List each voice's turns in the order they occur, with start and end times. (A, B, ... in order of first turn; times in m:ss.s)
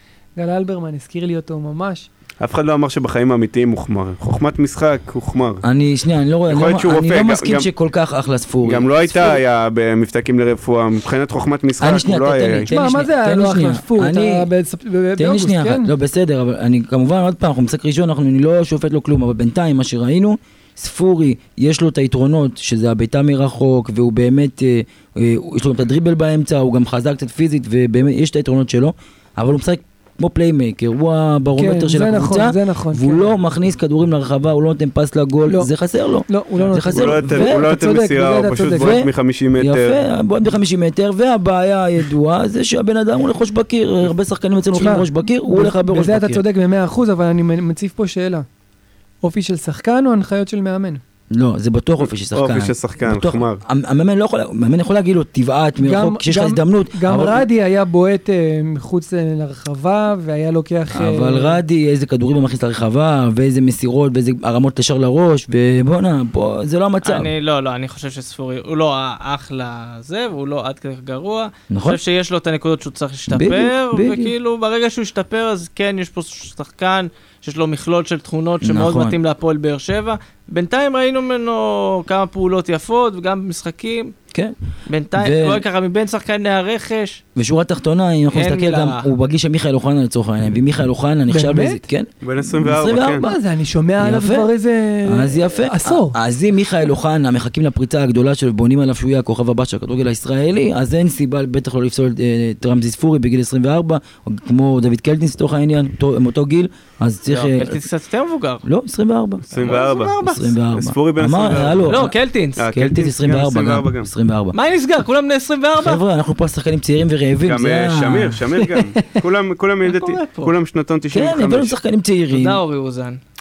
0:00.4-0:02.1 A
0:02.4-0:05.6 B
0:05.6-0:09.4 C
0:06.5-0:07.7 B
0:08.6-0:12.7 B
0:11.8-0:14.5 C
0:12.7-0:15.9 A
0:15.2-0:37.7 C
0:31.6-0:33.3 A
0:36.3-0:39.0 A
0:36.9-0:40.0 B
0:38.7-0:46.4 C
0:44.7-0:48.4 A
0:49.2-0:51.0 A
0:51.3-0:57.4 C
0:52.0-0:53.6 B
0:55.8-1:01.6 A
1:00.9-1:07.3 C
1:07.0-1:24.1 D
1:11.7-1:12.0 C
1:13.3-1:14.3 C
1:18.6-1:19.2 C
1:24.9-1:27.2 D
1:25.2-1:25.6 C
1:27.4-1:33.4 C
1:28.3-1:29.1 D
1:31.3-1:31.8 A
1:32.2-1:33.3 B
1:33.2-1:36.2 A
1:34.0-1:34.5 C
1:35.0-1:47.8 C
1:47.3-1:48.6 D
1:48.6-1:54.6 C
1:49.5-1:50.2 B
1:49.5-1:50.5 D
1:50.7-1:54.1 B
1:51.9-1:52.6 D
1:54.5-1:56.0 D
1:55.8-1:58.4 C
1:57.4-2:01.7 B
1:59.8-2:00.5 D
2:01.1-2:02.6 C
2:02.3-2:03.2 D